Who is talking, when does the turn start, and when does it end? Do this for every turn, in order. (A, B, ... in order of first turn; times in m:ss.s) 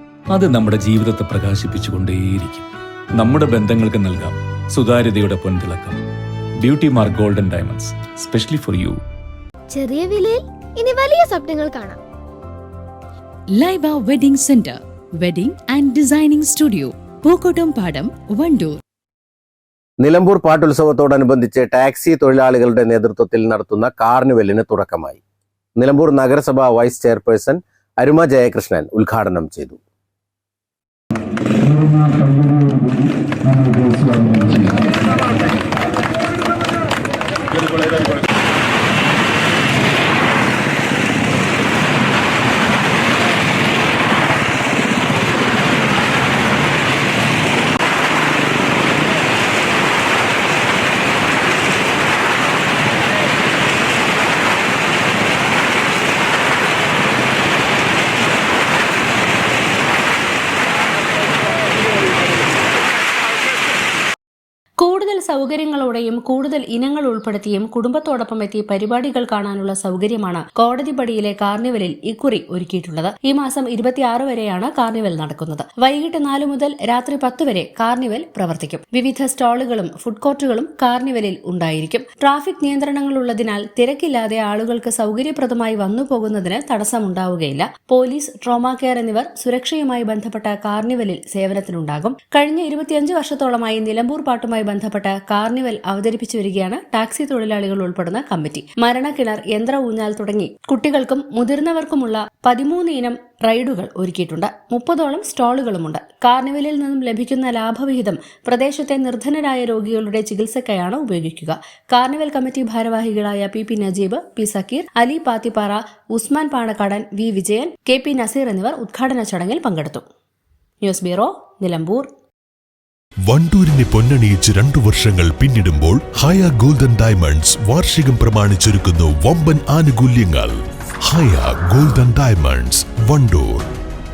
0:00.3-0:02.7 A
0:03.2-0:06.0 A
0:06.6-0:09.0 A
0:09.7-0:12.0 B
0:13.5-0:18.8 C
0:20.0-0:25.2 D
0:25.8-0:29.8 D
1:04.8-2:00.0 E
2:00.8-2:02.1 E
2:03.3-2:13.6 F